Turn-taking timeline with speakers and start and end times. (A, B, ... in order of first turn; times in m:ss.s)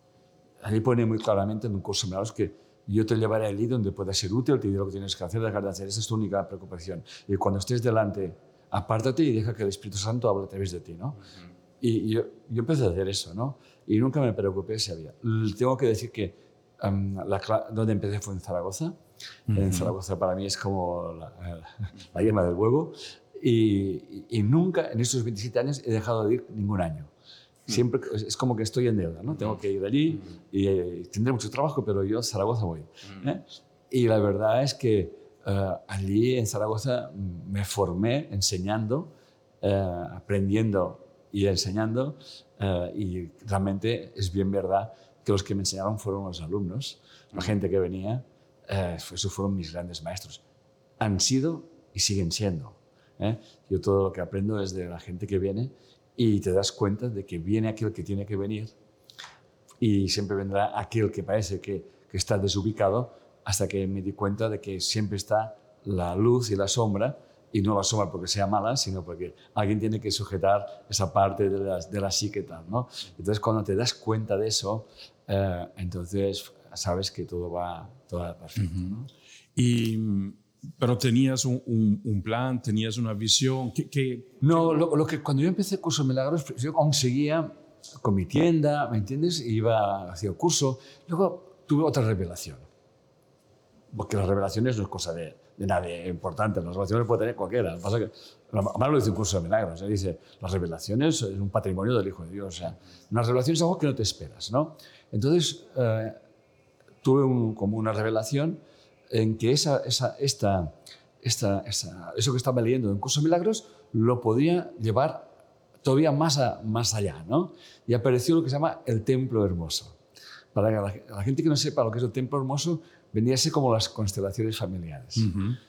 0:00.6-0:11.2 A
0:11.8-0:19.0 A
0:19.5-0:19.9 B
0:19.5-0:27.1 A
0:27.7-0:50.4 A
0:51.0-0:58.8 A
0:59.8-1:19.1 A
1:19.6-1:24.5 B
1:24.4-1:32.7 A
1:33.9-1:46.2 A
1:47.0-2:00.0 A
2:00.5-2:05.4 A
2:05.2-2:05.6 B